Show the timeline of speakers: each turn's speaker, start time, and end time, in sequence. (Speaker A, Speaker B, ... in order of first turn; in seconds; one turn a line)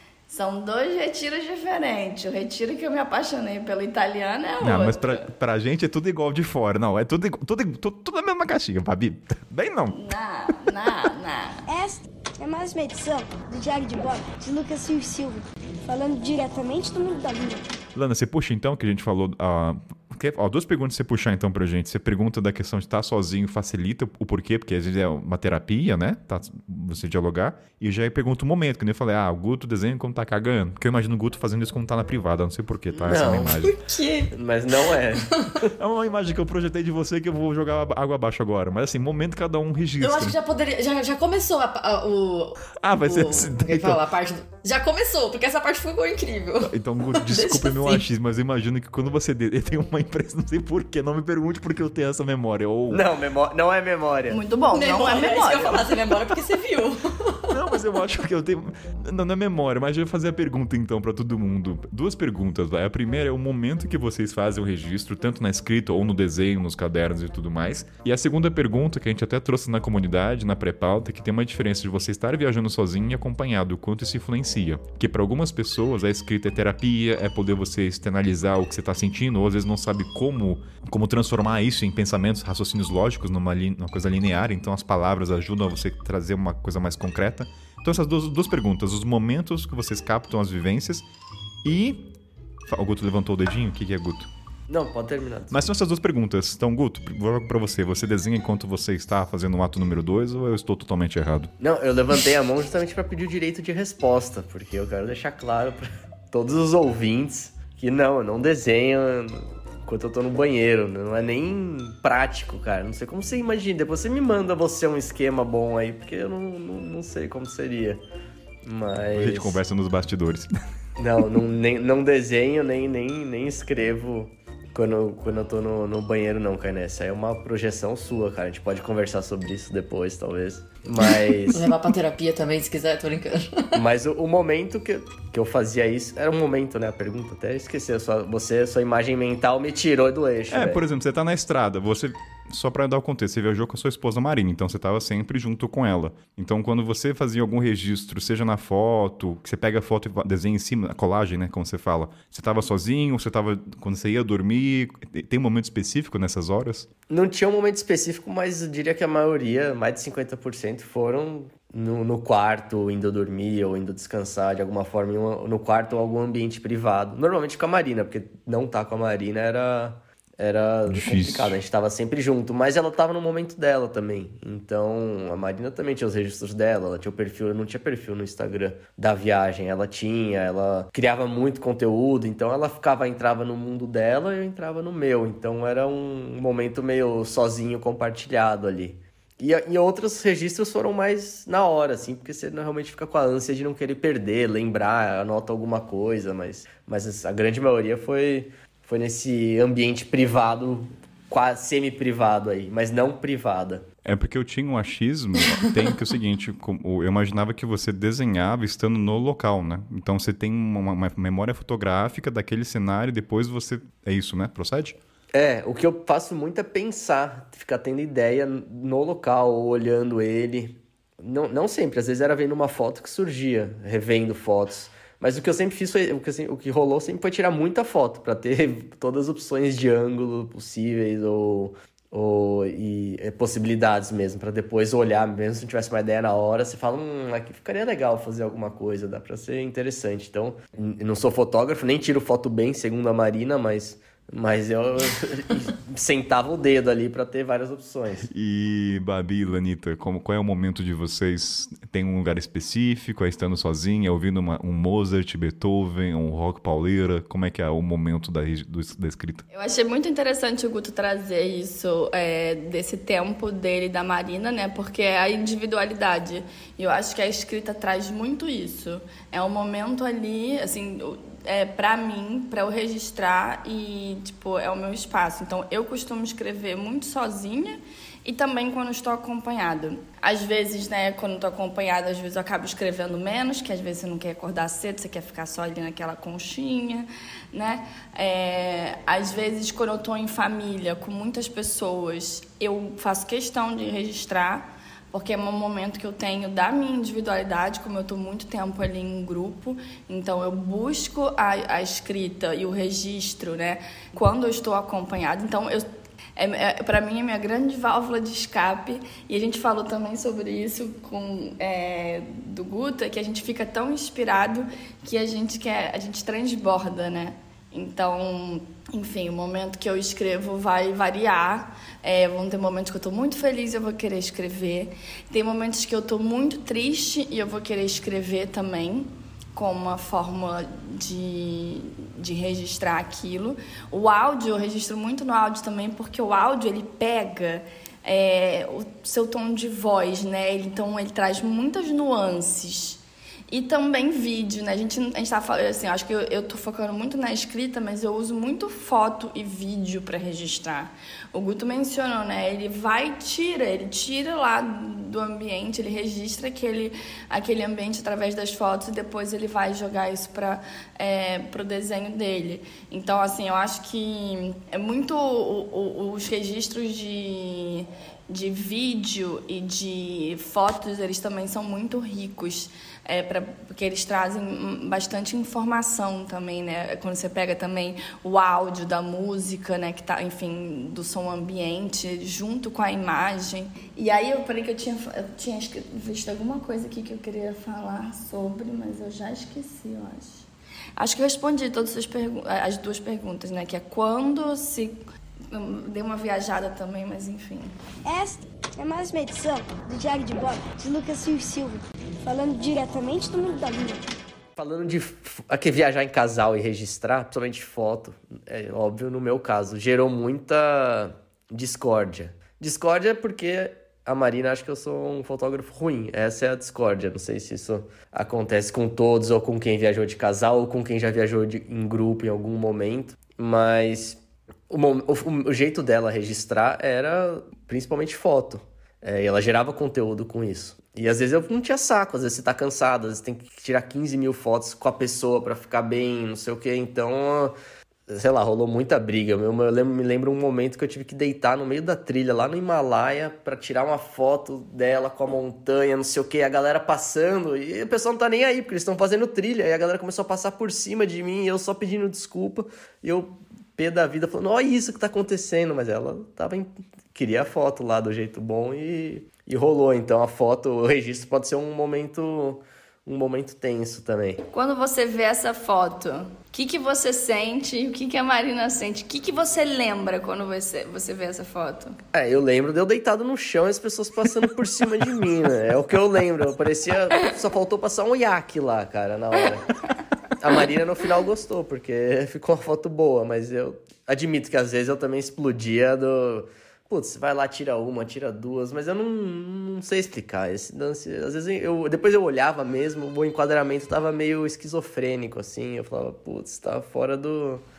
Speaker A: 0.3-5.3
Speaker B: 4.6-10.0
Speaker A: 9.9-11.6
Speaker C: 11.7-17.7
Speaker B: 17.9-33.8
Speaker D: 33.0-33.6
Speaker E: 33.6-34.3
Speaker D: 34.3-35.7
Speaker B: 35.8-40.4
Speaker E: 40.0-48.0
Speaker B: 42.8-44.0
Speaker B: 46.7-53.0
Speaker D: 52.9-54.4
Speaker A: 54.3-55.9
Speaker E: 54.7-57.5
Speaker B: 57.5-91.1
Speaker B: 91.6-92.1
Speaker B: 92.7-94.3
Speaker D: 94.7-95.7
Speaker B: 95.5-101.5
Speaker D: 101.6-118.0
Speaker D: 118.6-119.6
Speaker B: 119.1-120.5
Speaker D: 121.0-131.7
Speaker E: 131.5-133.8
Speaker D: 133.7-140.8
Speaker B: 140.5-156.9
Speaker D: 157.1-203.9
Speaker B: 170.9-171.6
Speaker B: 204.1-215.0
Speaker D: 215.3-248.3
Speaker B: 248.3-259.4
Speaker A: 259.5-395.0
Speaker A: 395.5-397.7
Speaker C: 398.1-404.0
Speaker D: 404.6-437.6
Speaker D: 438.1-464.4
Speaker A: 464.5-472.0
Speaker D: 472.1-497.6